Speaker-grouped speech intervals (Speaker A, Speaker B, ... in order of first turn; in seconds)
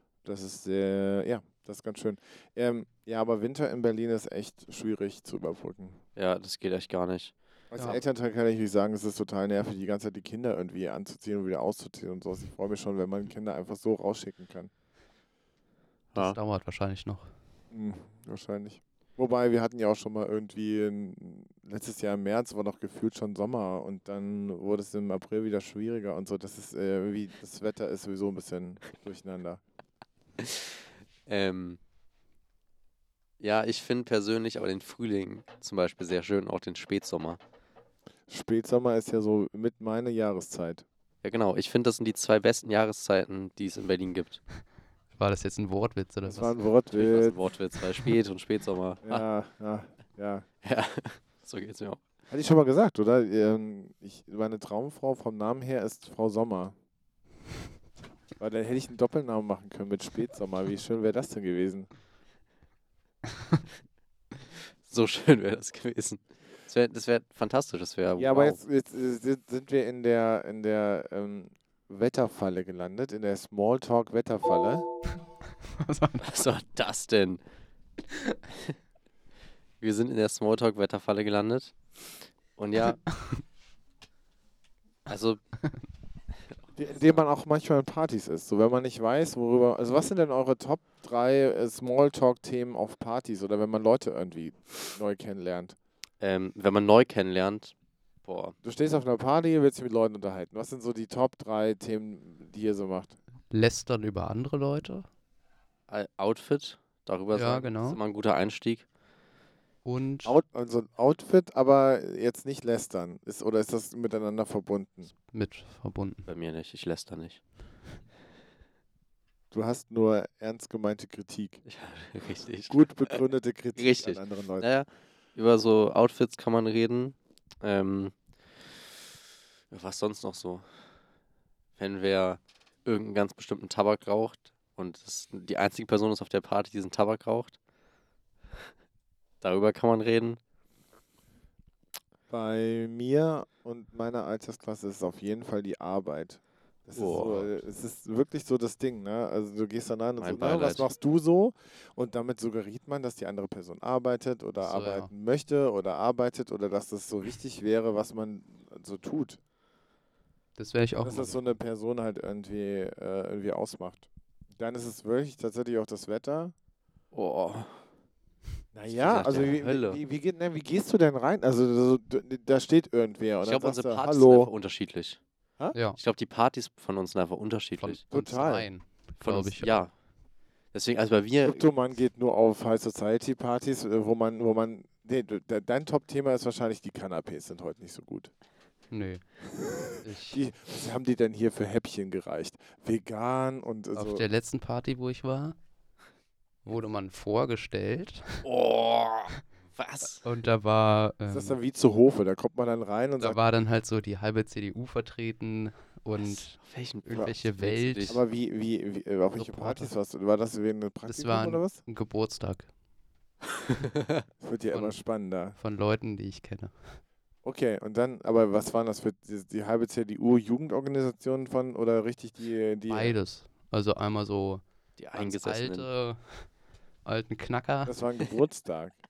Speaker A: 0.2-6.0, 7.7-14.7, 17.7-29.6, 38.3-40.8, 46.2-47.4, 49.0-50.5, 52.3-56.7, 58.4-61.9, 68.2-74.8, 86.8-95.8, 98.6-103.2, 110.2-115.1, 119.5-121.6, 122.7-124.7, 142.3-159.4, 161.0-166.5, 168.7-174.5, 178.1-178.7, 181.4-188.3, 189.5-194.2, 201.3-203.4, 208.1-211.8, 214.4-215.6, 217.4-223.2, 227.8-229.0
Speaker B: 6.2-7.3, 31.2-31.8, 33.4-37.4, 41.2-44.4, 46.9-49.2, 50.6-52.0, 64.8-68.6, 76.2-77.4, 79.8-81.8, 82.5-83.0, 85.1-85.4, 96.2-98.5, 105.9-108.8, 116.2-117.4, 121.6-123.2, 123.7-128.2, 129.7-130.6, 131.8-137.6, 139.4-140.4, 146.9-147.6, 150.2-150.9, 167.1-167.8, 168.9-170.0, 173.4-175.2, 175.9-178.0, 179.2-179.9, 180.7-181.7, 198.4-200.2, 206.2-208.2, 225.0-225.9
Speaker C: 7.7-8.0, 16.1-17.3, 45.1-46.6, 75.8-76.4, 82.8-83.4, 103.5-105.1, 107.3-108.0, 109.8-110.4, 115.3-116.2, 154.6-155.1, 160.6-161.5, 175.7-176.0, 177.8-179.9, 188.9-190.4, 193.9-195.6, 196.6-198.4, 200.2-201.6, 203.2-208.2, 209.3-209.9, 211.1-212.7, 214.7-215.0, 215.6-217.0, 222.9-226.5, 227.0-228.0